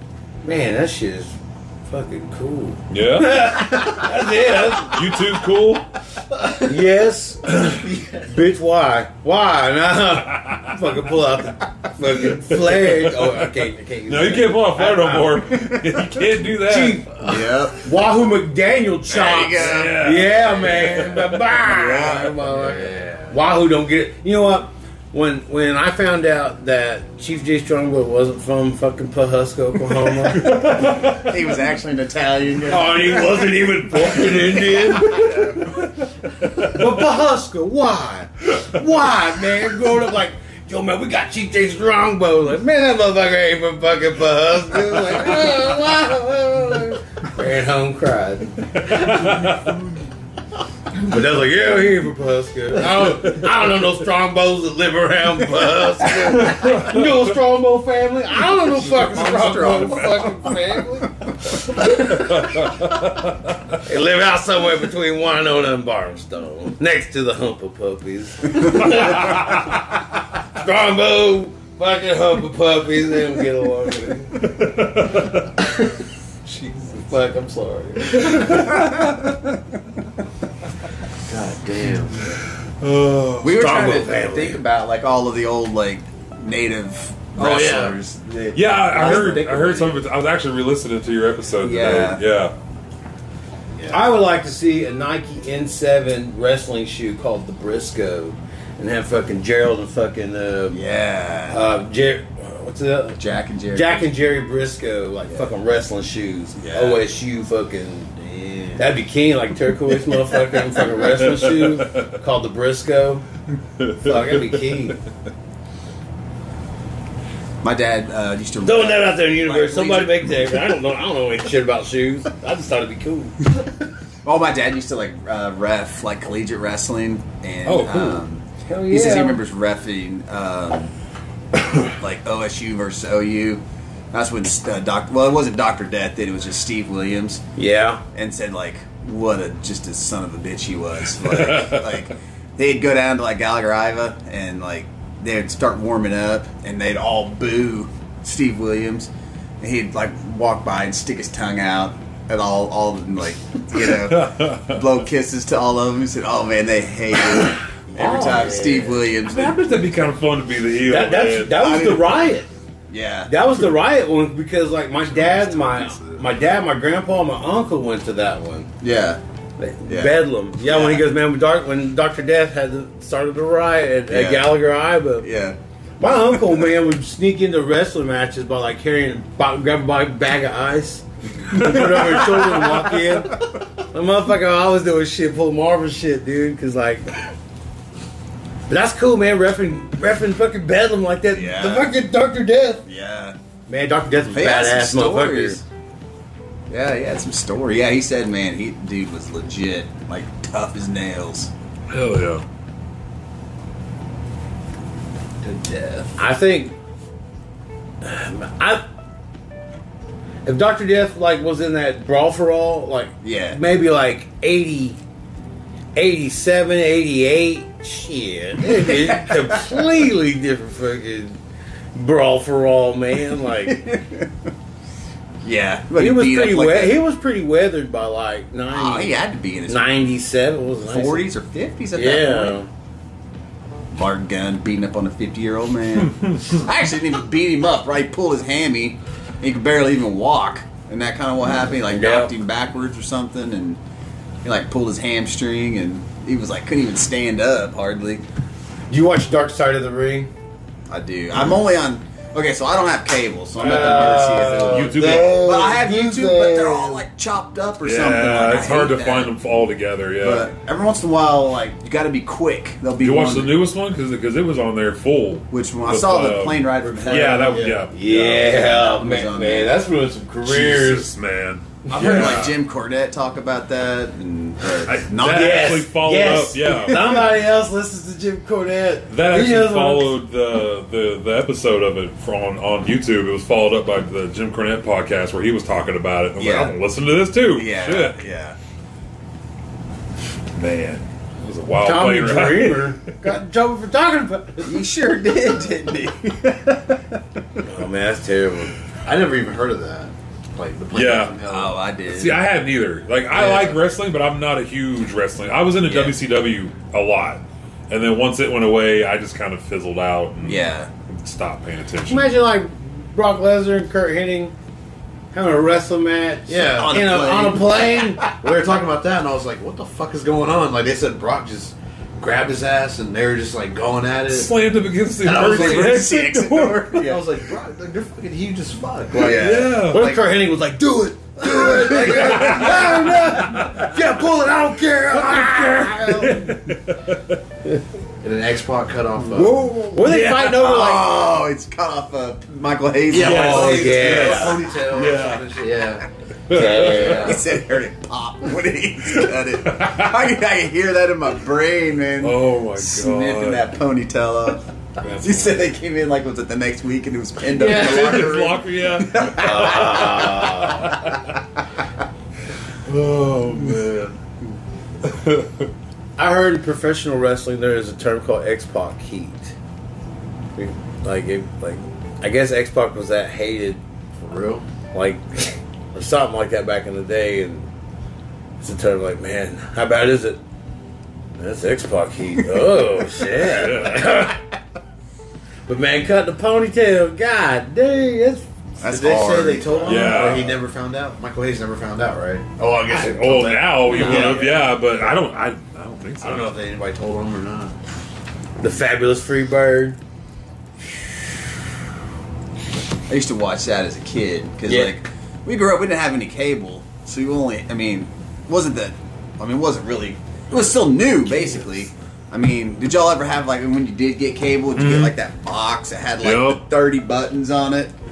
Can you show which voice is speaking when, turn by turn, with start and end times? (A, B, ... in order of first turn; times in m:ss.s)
0:00.4-0:01.4 A
0:01.9-0:05.3 A
0:02.9-0:03.8 B
0:04.7-0:05.8 B
0:06.6-0:15.6 A
0:12.5-0:13.3 B
0:14.1-0:17.1 B
0:16.6-0:30.7 A
0:17.2-0:17.8 C
0:19.1-0:20.2 C
0:19.5-0:21.4 B
0:21.6-0:22.5 C
0:22.6-0:23.4 D
0:30.4-0:35.6 C
0:30.5-0:31.2 B
0:32.7-0:35.5 A
0:36.6-0:49.5 A
0:48.8-0:49.7 B
0:51.0-1:02.4 A
0:56.5-0:57.0 B
0:58.8-1:00.6 C
0:59.8-1:00.2 B
1:02.2-1:03.2 B
1:03.8-1:09.9 A
1:10.5-1:14.5 A
1:14.5-1:15.4 B
1:16.5-1:16.9 B
1:16.8-1:18.8 A
1:18.4-1:18.8 B
1:21.3-1:22.3 D
1:22.8-1:23.8 B
1:23.4-1:30.1 C
1:23.4-1:24.6 A
1:27.4-1:28.0 A
1:28.5-1:32.5 B
1:31.6-1:32.2 C
1:33.9-1:40.8 A
1:40.7-1:41.6 C
1:41.5-1:48.1 A
1:43.2-1:44.1 C
1:46.6-1:47.0 C
1:48.2-1:48.8 D
1:48.8-1:53.2 A
1:51.5-1:52.0 B
1:53.8-1:54.3 B
1:54.0-1:55.0 A
1:57.6-2:00.5 C
1:58.6-2:03.4 A
2:04.2-2:10.9 C
2:07.6-2:08.2 B
2:08.6-2:09.4 A
2:11.9-2:17.4 C
2:17.6-2:18.0 A
2:18.1-2:39.6 C
2:21.4-2:21.7 B
2:34.0-2:34.8 B
2:38.0-2:39.0 A
2:39.2-2:41.8 B
2:40.9-2:42.5 A
2:41.6-2:42.3 C
2:42.9-2:43.4 C
2:43.3-2:48.7 A
2:45.1-2:46.2 C
2:48.8-2:49.2 C
2:49.6-2:55.3 A
2:49.9-2:51.1 C
2:54.1-2:55.6 C
2:56.0-3:07.1 A
3:08.7-3:12.8 A
3:11.3-3:12.0 C
3:12.8-3:13.4 C
3:13.7-3:15.6 A
3:14.3-3:15.6 C
3:16.7-3:21.5 C
3:21.9-3:22.4 B
3:25.4-3:26.2 D
3:26.2-3:26.7 A
3:28.0-3:28.8 A
3:30.4-3:35.0 A
3:33.2-3:33.6 C
3:36.0-3:41.4 A
3:38.7-3:39.8 C
3:42.0-3:43.8 A
3:43.6-3:44.5 C
3:45.4-3:47.0 C
3:45.9-3:51.3 A
3:48.7-3:50.1 C
3:50.8-3:52.6 C
3:51.9-3:52.7 A
3:53.9-4:03.8 C
4:01.8-4:02.4 A
4:04.4-4:08.2 C
4:08.9-4:10.3 A
4:10.9-4:19.4 C
4:13.6-4:17.0 A
4:14.7-4:15.6 B
4:17.8-4:20.5 B
4:20.2-4:23.6 C
4:23.0-4:28.6 B
4:25.5-4:29.8 C
4:27.0-4:27.8 D
4:27.9-4:31.1 A
4:30.4-4:32.6 B
4:31.9-4:32.3 A
4:31.9-4:35.9 C
4:34.8-4:37.2 B
4:35.2-4:40.2 A
4:36.7-4:37.0 C
4:39.1-4:48.2 B
4:46.4-4:46.8 C
4:47.5-4:48.6 C
4:50.5-4:53.0 B
4:51.8-4:54.8 A
4:54.6-4:57.2 C
4:57.6-4:58.8 A
4:59.0-5:01.8 D
5:00.9-5:01.4 B
5:01.5-5:02.4 C
5:02.1-5:12.3 B
5:03.3-5:03.8 C
5:05.8-5:06.2 C
5:10.4-5:10.9 C
5:12.0-5:14.5 A
5:15.3-5:18.2 A
5:16.5-5:17.0 D
5:16.7-5:18.3 C
5:18.3-5:24.5 D
5:24.3-5:27.0 B
5:25.2-5:26.1 D
5:25.3-5:27.3 C
5:27.0-5:30.2 D
5:29.1-5:29.8 C
5:29.2-5:30.2 B
5:29.6-5:36.6 A
5:31.4-5:33.0 D
5:32.2-5:33.9 B
5:36.1-5:37.4 B
5:38.2-5:39.8 D
5:39.3-5:44.6 C
5:39.9-5:41.2 A
5:40.0-5:40.6 B
5:43.1-5:46.1 D
5:43.1-5:45.5 B
5:43.1-5:44.6 A
5:46.5-5:47.4 B
5:46.5-5:47.4 A
5:46.8-6:00.6 C
5:49.3-5:50.2 B
5:52.2-5:53.7 B
5:55.0-5:55.5 A
5:57.5-6:01.1 B
5:59.3-6:00.9 A
6:03.0-6:03.8 B
6:03.1-6:04.1 D
6:05.1-6:05.6 B
6:06.2-6:09.5 A
6:10.6-6:13.8 A
6:14.2-6:14.7 D
6:14.9-6:17.7 A
6:18.6-6:20.4 A
6:21.4-6:24.4 A
6:23.4-6:24.2 B
6:25.7-6:28.4 A
6:28.8-6:30.3 C
6:28.9-6:34.7 D
6:29.9-6:30.6 B
6:32.9-6:36.5 B
6:33.9-6:34.4 C
6:36.2-6:37.8 D
6:38.6-6:40.0 A
6:43.1-6:58.0 C
6:44.6-6:45.0 A
6:54.8-6:55.2 B
6:56.2-6:56.7 B